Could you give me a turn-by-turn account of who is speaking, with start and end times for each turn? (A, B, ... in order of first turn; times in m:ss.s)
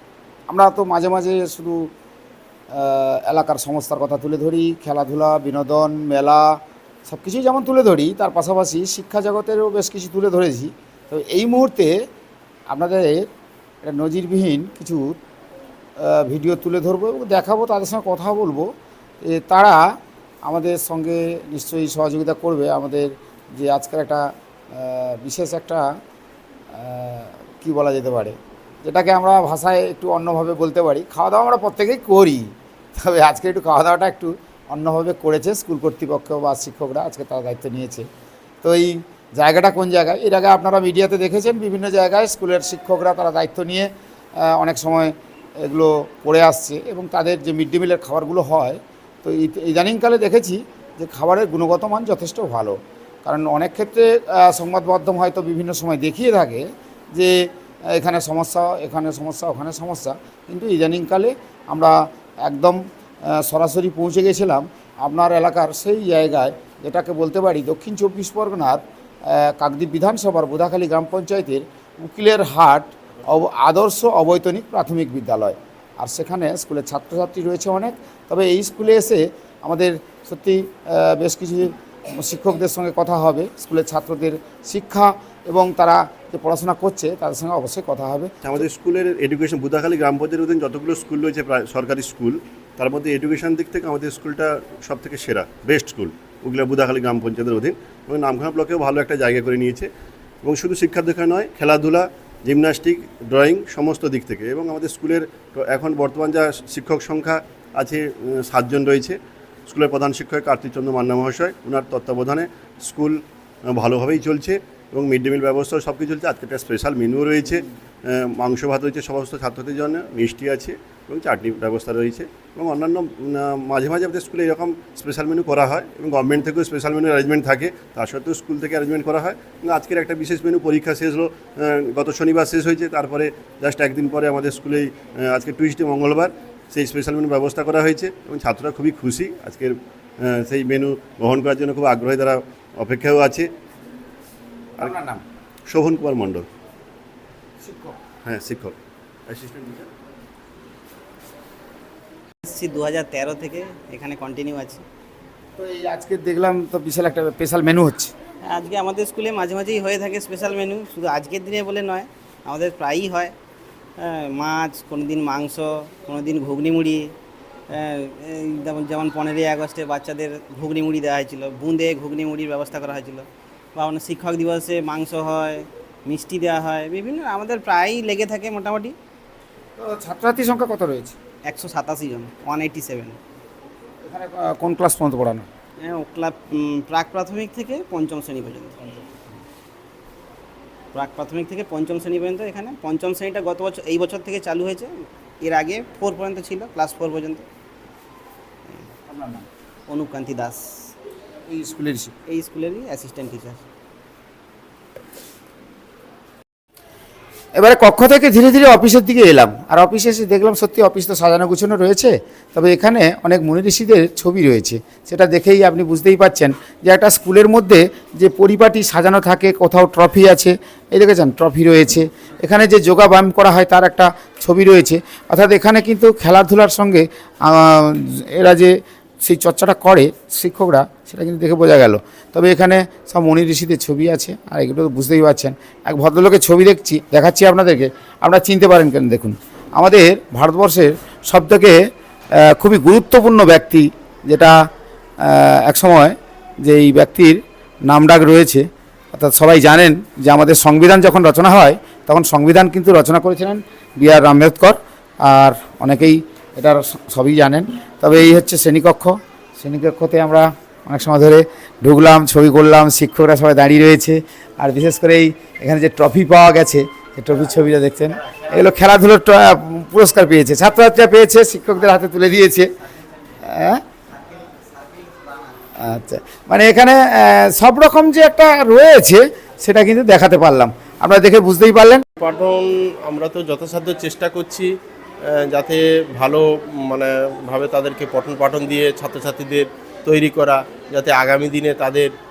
0:00.5-0:01.9 A
0:02.7-0:12.0 A
0:12.7-0:13.3 A
0:13.8-0:15.2 A
0:16.0-0:18.7 A
0:19.2-0:19.8 A
0:20.4-0:25.8 A
0:26.7-0:38.0 A
0:38.6-0:43.9 A
0:44.4-0:57.3 A
0:57.9-1:28.4 A
1:28.4-1:39.9 B
1:40.4-2:19.7 B
2:20.2-2:23.5 B
2:24.8-2:25.2 A
2:25.7-2:26.5 B
2:27.6-2:28.0 A
2:28.2-2:29.9 B
2:32.4-2:34.8 C
2:35.6-2:38.1 A
2:38.4-2:43.3 C
2:44.0-2:47.1 C
2:47.7-2:59.0 C
2:59.8-3:01.2 A
3:01.5-3:03.2 C
3:04.0-3:05.5 A
3:05.8-3:08.8 C
3:10.9-3:17.4 C
3:19.1-3:19.4 A
3:19.9-3:20.6 C
3:21.5-3:22.1 A
3:22.3-3:23.6 C
3:27.6-4:01.8 A
4:02.4-4:04.6 A
4:05.2-4:32.7 A
4:33.4-4:33.8 A
4:35.8-4:42.0 A
4:42.2-4:44.7 D
4:45.3-4:52.1 D